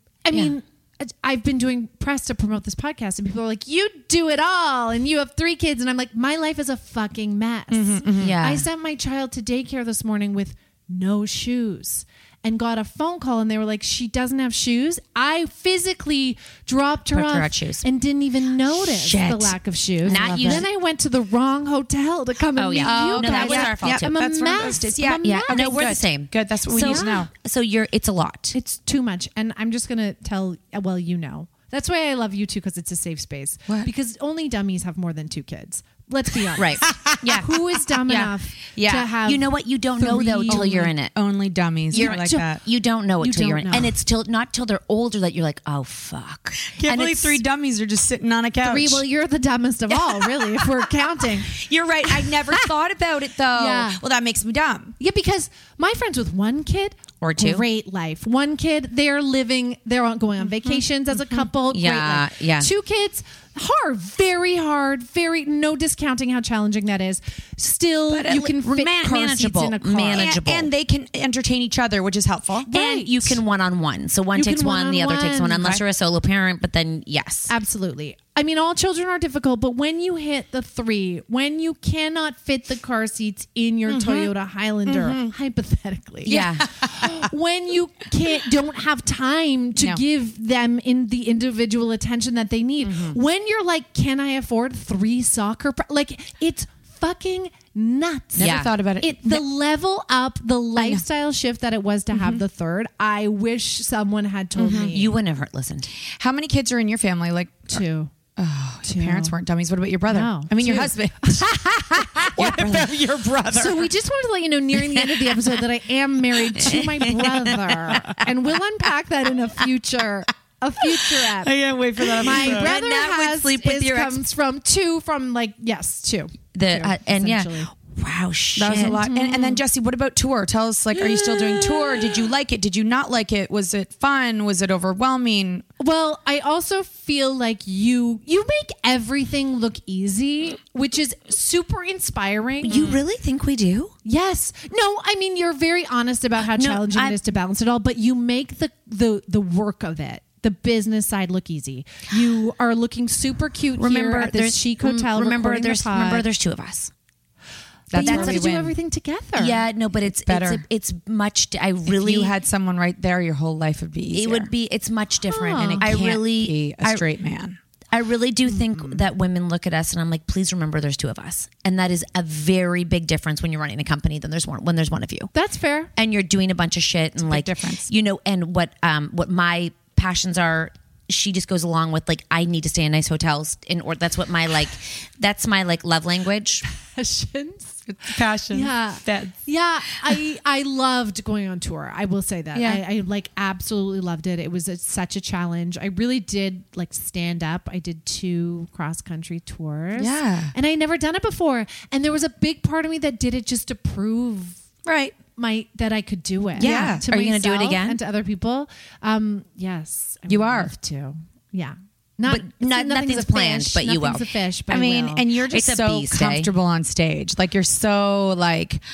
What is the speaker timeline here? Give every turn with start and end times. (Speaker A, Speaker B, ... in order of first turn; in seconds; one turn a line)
Speaker A: 0.2-26.0
Speaker B: 7.7-8.4
Speaker C: 8.2-8.7
Speaker C: 17.1-17.9
Speaker C: 18.7-20.7
Speaker B: 20.0-20.7
Speaker C: 22.6-24.2
Speaker B: 22.8-27.3
Speaker C: 25.2-28.6
Speaker A: 26.8-27.3
Speaker A: 28.5-40.9
Speaker C: 36.6-37.5
Speaker B: 36.8-37.1
Speaker C: 38.1-41.1
Speaker B: 40.1-42.6
Speaker C: 41.9-47.4
Speaker A: 41.9-42.6
Speaker A: 43.2-44.0
Speaker B: 46.8-49.0
Speaker A: 48.6-51.6
Speaker B: 49.9-55.0
Speaker A: 52.1-52.7
Speaker A: 53.5-54.0
Speaker A: 55.0-70.4
Speaker C: 57.2-57.7
Speaker C: 61.7-62.7
Speaker B: 68.1-68.6
Speaker C: 68.4-70.7
Speaker B: 70.1-72.7
Speaker A: 72.6-73.4
Speaker C: 72.7-77.5
Speaker A: 74.3-75.7
Speaker A: 77.5-105.1
Speaker B: 83.9-84.3
Speaker B: 84.9-85.4
Speaker C: 86.2-86.7
Speaker B: 86.3-87.3
Speaker B: 89.8-90.0
Speaker B: 92.8-93.2
Speaker B: 98.4-99.5
Speaker C: 98.4-98.7
Speaker B: 100.8-101.0
Speaker B: 102.1-102.4
Speaker B: 104.6-105.0
Speaker C: 104.9-105.9
Speaker B: 106.2-107.8
Speaker A: 107.7-108.1
Speaker B: 108.4-113.9
Speaker A: 108.8-109.4
Speaker A: 110.1-121.5
Speaker B: 114.8-115.4
Speaker B: 117.0-118.3
Speaker B: 121.3-122.7
Speaker C: 122.1-124.2
Speaker A: 122.1-127.7
Speaker C: 126.5-129.0
Speaker B: 128.6-135.7
Speaker A: 128.8-129.6
Speaker A: 130.9-132.2
Speaker A: 135.8-143.0
Speaker C: 142.6-143.9
Speaker A: 144.1-156.3
Speaker C: 146.5-147.2
Speaker C: 153.8-156.9
Speaker A: 157.9-159.7
Speaker B: 157.9-158.8
Speaker C: 157.9-158.4
Speaker C: 159.4-162.3
Speaker B: 160.1-160.7
Speaker B: 161.9-164.5
Speaker C: 164.1-167.1
Speaker A: 165.3-166.0
Speaker B: 165.5-167.6
Speaker C: 167.9-175.3
Speaker A: 168.5-169.0
Speaker A: 175.3-175.9
Speaker C: 176.0-186.6
Speaker B: 177.2-177.9
Speaker A: 186.8-187.8
Speaker B: 187.9-189.4
Speaker A: 188.5-204.6
Speaker B: 192.5-192.8
Speaker B: 200.0-200.5
Speaker B: 204.9-205.2
Speaker A: 205.2-215.3
Speaker C: 206.6-208.0
Speaker B: 206.6-207.0
Speaker B: 210.3-210.7
Speaker C: 212.3-214.3
Speaker B: 214.7-218.8
Speaker C: 215.5-216.5